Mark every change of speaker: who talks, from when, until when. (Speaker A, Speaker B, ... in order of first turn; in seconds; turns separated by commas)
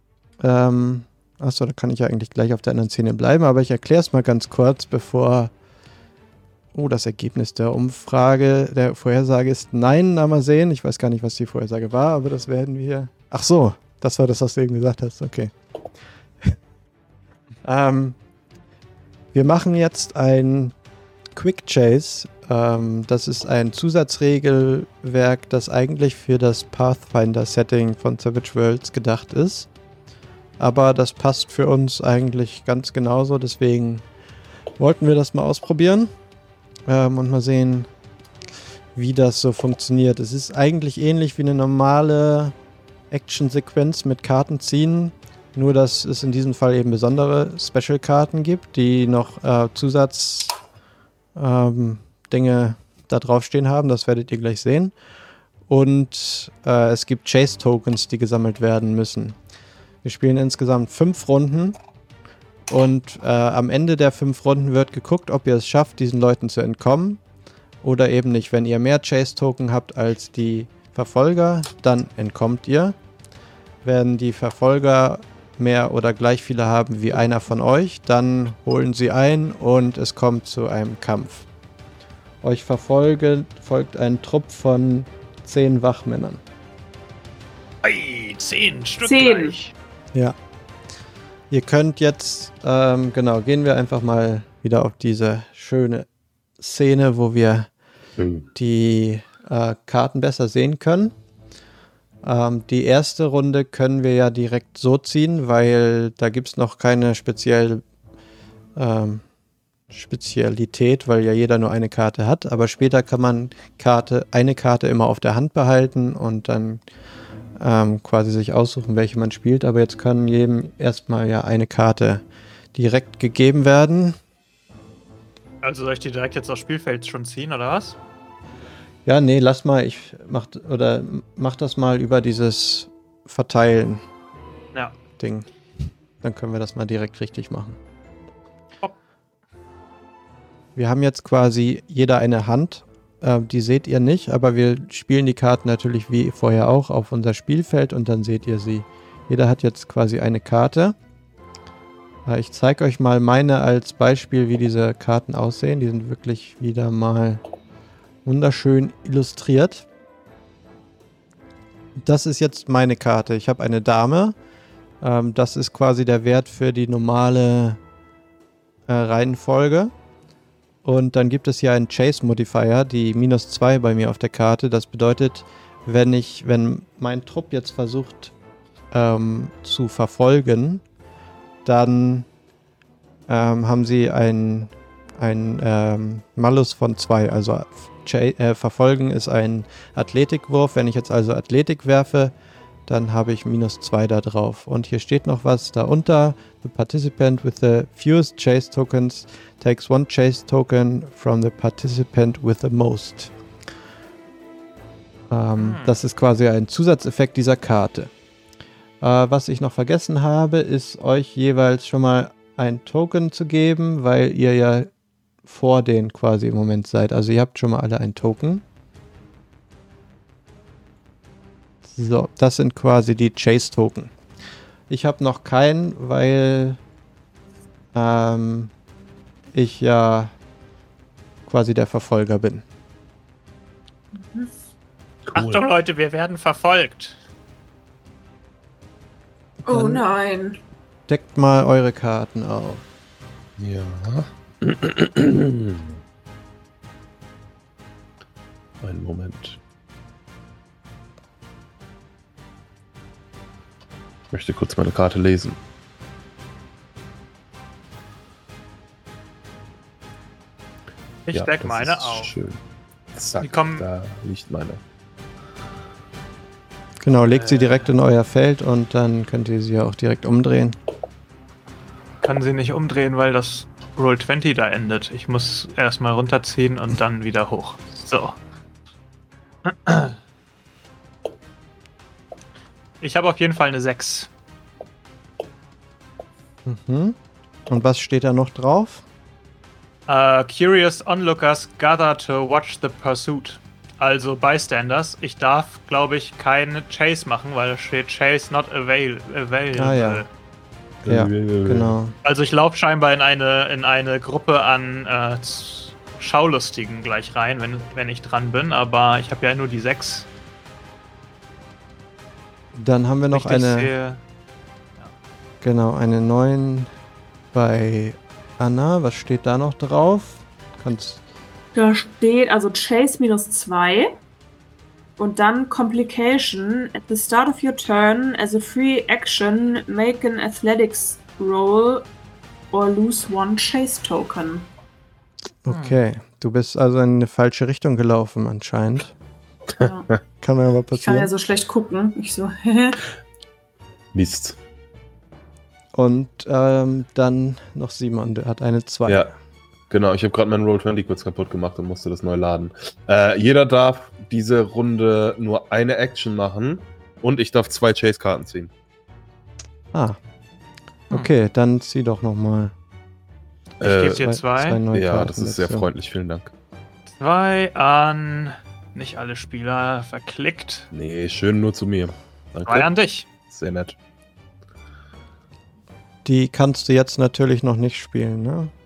Speaker A: 0.4-5.5, Speaker A: 6.7-15.5, Speaker A: 17.6-18.2, Speaker A: 19.3-20.8, Speaker A: 21.3-29.7, Speaker A: 30.6-34.0, Speaker A: 34.8-36.1, Speaker A: 36.9-37.9, Speaker A: 39.0-42.6, Speaker A: 43.1-50.6, Speaker A: 51.4-55.0, Speaker A: 55.7-59.4, Speaker A: 60.0-61.8, Speaker A: 62.7-67.2, Speaker A: 67.8-73.0, Speaker A: 73.8-81.5, Speaker A: 82.4-86.4, Speaker B: 87.8-89.7, Speaker C: 89.0-89.6, Speaker A: 91.5-96.1, Speaker A: 96.6-97.7, Speaker D: 98.2-98.5, Speaker A: 98.5-101.2, Speaker A: 102.2-107.8, Speaker A: 108.8-109.2, Speaker A: 109.9-116.8, Speaker A: 117.6-122.2, Speaker A: 122.8-124.2, Speaker B: 125.6-128.0, Speaker A: 129.1-134.0, Speaker A: 135.2-135.5, Speaker A: 136.2-137.8, Speaker A: 140.8-151.0, Speaker A: 152.3-157.4, Speaker A: 158.2-159.9, Speaker A: 162.0-164.4, Speaker A: 165.0-167.8, Speaker A: 168.9-169.9, Speaker A: 170.8-178.3, Speaker A: 178.9-180.8, Speaker A: 181.7-182.3, Speaker A: 183.3-192.3, Speaker A: 192.9-203.3, Speaker A: 205.3-208.1, Speaker B: 205.6-206.0, Speaker A: 209.0-214.9, Speaker A: 215.5-218.7, Speaker A: 221.9-224.1, Speaker A: 224.9-226.8, Speaker A: 227.9-228.7, Speaker A: 229.5-230.3, Speaker A: 231.5-232.6, Speaker C: 234.2-234.5, Speaker D: 235.3-235.7, Speaker B: 235.3-237.2, Speaker A: 239.7-240.0, Speaker C: 239.7-240.6, Speaker A: 241.1-242.8, Speaker D: 243.6-246.0, Speaker D: 248.8-249.6, Speaker D: 254.3-255.6, Speaker B: 261.3-262.3, Speaker D: 261.3-262.6, Speaker D: 263.1-264.8, Speaker B: 263.4-263.9, Speaker A: 267.0-270.8, Speaker B: 267.3-267.9, Speaker B: 272.2-278.4, Speaker B: 279.6-280.2, Speaker B: 283.0-284.3, Speaker A: 286.6-287.2, Speaker A: 287.7-289.1, Speaker B: 290.1-300.3, Speaker A: 299.8-300.2, Speaker D: 301.0-302.0, Speaker A: 301.1-302.1, Speaker B: 302.2-310.3, Speaker A: 312.7-313.9, Speaker B: 313.3-314.2, Speaker A: 315.6-316.9, Speaker A: 317.5-321.2, Speaker C: 321.8-324.2, Speaker C: 325.2-332.1, Speaker C: 332.7-334.7, Speaker A: 335.6-339.1, Speaker B: 335.7-336.0, Speaker C: 339.8-340.1, Speaker A: 340.4-341.3, Speaker C: 341.0-343.1, Speaker D: 344.1-344.6, Speaker A: 345.9-349.3, Speaker D: 349.9-358.7, Speaker A: 359.9-360.2, Speaker A: 361.1-362.7, Speaker B: 363.8-364.8, Speaker D: 363.8-364.3, Speaker A: 364.2-365.9, Speaker D: 364.9-366.5, Speaker B: 367.2-370.9, Speaker D: 370.9-372.9, Speaker B: 372.7-373.3, Speaker D: 373.5-373.9, Speaker A: 376.2-378.7